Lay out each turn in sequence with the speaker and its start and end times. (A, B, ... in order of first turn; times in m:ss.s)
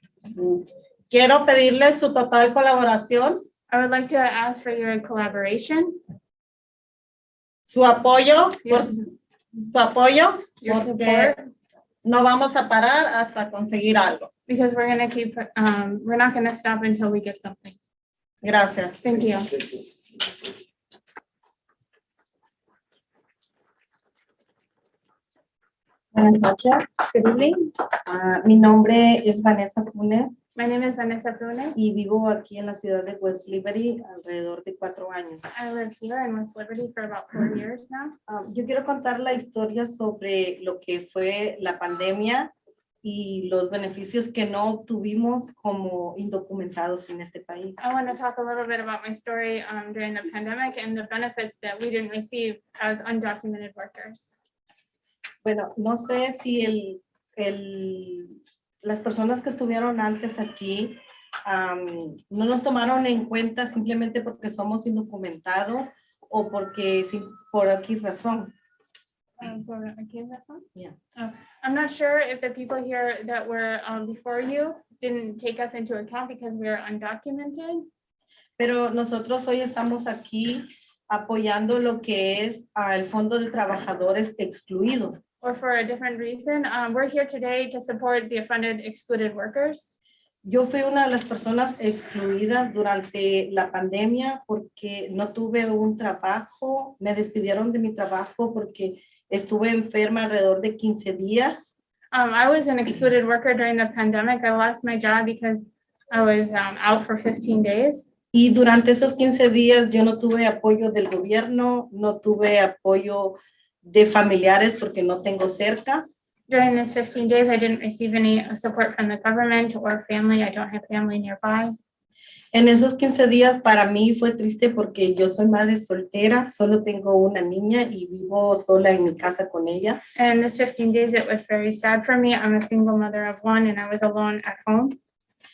0:00.4-0:03.4 A
0:03.7-0:06.0 B
0:07.7-0:08.9 A
0:08.6-0:09.1 B
0:09.6-0:11.4 A
0:10.6-0:11.5 B
0:12.0-0:14.3 A
0:14.5-0:17.8 B
0:18.4-0:19.0 A
0:19.0-0:19.6 B
0:26.1-0:30.3 C
0:30.5-0:31.8 B
0:31.8-0:35.4 C
0:35.5-0:38.2 B
0:38.3-0:42.5 C
0:43.0-0:47.8 C
0:47.8-0:54.3 B
0:55.4-1:08.5 C
1:09.4-1:10.6 B
1:11.2-1:17.9 B
1:18.6-1:25.2 C
1:25.4-1:29.9 B
1:30.4-1:41.7 C
1:42.1-1:48.1 B
1:48.3-1:56.0 C
1:56.5-2:01.8 B
2:02.5-2:10.0 C
2:10.1-2:15.0 B